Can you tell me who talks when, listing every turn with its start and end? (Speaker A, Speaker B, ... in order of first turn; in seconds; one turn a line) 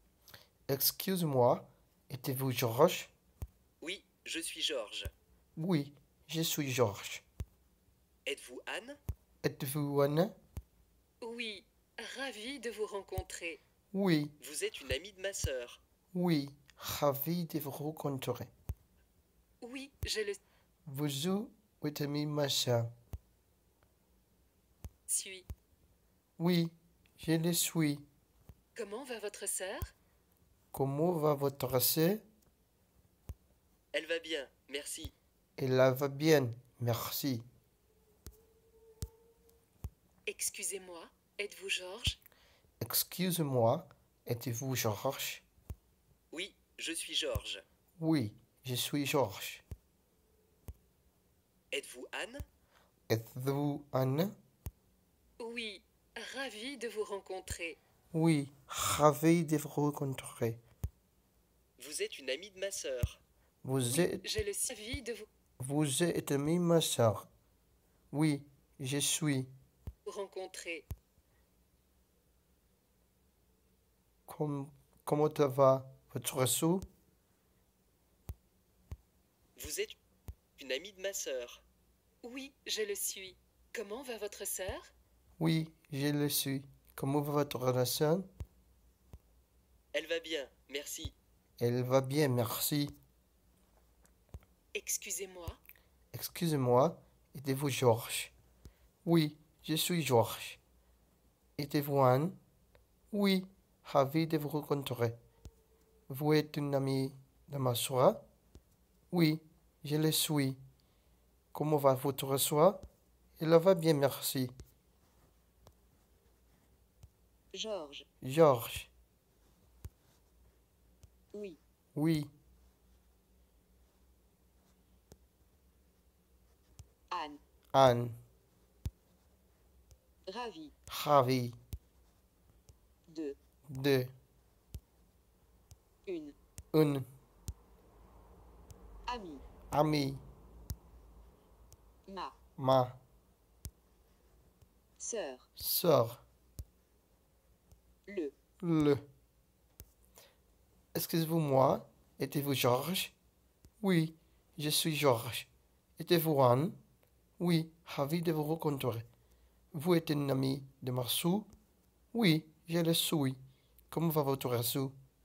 Speaker A: 0.7-3.1
Speaker B: 3.8-5.1
Speaker A: 5.6-7.2
Speaker B: 8.2-9.0
Speaker A: 9.4-10.3
Speaker C: 11.2-13.6
Speaker A: 13.9-14.3
Speaker B: 14.4-15.8
Speaker A: 16.1-18.5
Speaker C: 19.6-20.4
Speaker A: 20.9-22.9
Speaker C: 25.1-25.5
Speaker A: 26.4-28.0
Speaker C: 28.7-29.9
Speaker A: 30.7-32.2
Speaker B: 33.9-35.1
Speaker A: 35.6-37.4
Speaker C: 40.3-42.2
Speaker A: 42.8-45.4
Speaker B: 46.3-47.6
Speaker A: 48.0-49.6
Speaker B: 51.7-52.4
Speaker A: 53.1-54.3
Speaker C: 55.4-57.8
Speaker A: 58.1-60.6
Speaker B: 61.8-63.2
Speaker A: 63.6-64.2
Speaker C: 63.9-65.3
Speaker A: 65.6-67.3
Speaker A: 68.1-69.5
Speaker C: 70.0-70.9
Speaker A: 74.3-76.8
Speaker B: 79.5-80.0
Speaker B: 80.6-81.6
Speaker C: 82.2-84.9
Speaker A: 85.4-88.2
Speaker B: 89.9-91.1
Speaker A: 91.6-92.9
Speaker C: 94.7-95.6
Speaker A: 96.1-98.3
Speaker A: 99.0-100.6
Speaker A: 101.6-102.3
Speaker A: 103.1-105.2
Speaker A: 106.1-108.2
Speaker A: 109.1-110.6
Speaker A: 111.5-112.8
Speaker A: 113.4-114.5
Speaker D: 117.5-118.0
Speaker A: 118.2-118.9
Speaker D: 121.3-121.6
Speaker A: 121.9-122.3
Speaker D: 127.1-127.4
Speaker A: 127.7-128.2
Speaker D: 130.3-130.7
Speaker A: 130.9-131.6
Speaker D: 133.1-133.4
Speaker A: 133.7-134.1
Speaker D: 136.1-136.3
Speaker A: 136.7-137.1
Speaker D: 139.1-139.4
Speaker A: 139.7-140.2
Speaker D: 142.1-142.3
Speaker A: 142.6-143.0
Speaker D: 145.0-145.5
Speaker A: 145.6-146.2
Speaker D: 148.1-148.3
Speaker A: 148.6-149.0
Speaker A: 150.9-153.1
Speaker A: 153.8-156.8
Speaker A: 157.4-159.1
Speaker A: 159.7-161.5
Speaker A: 162.1-163.4
Speaker A: 163.9-164.9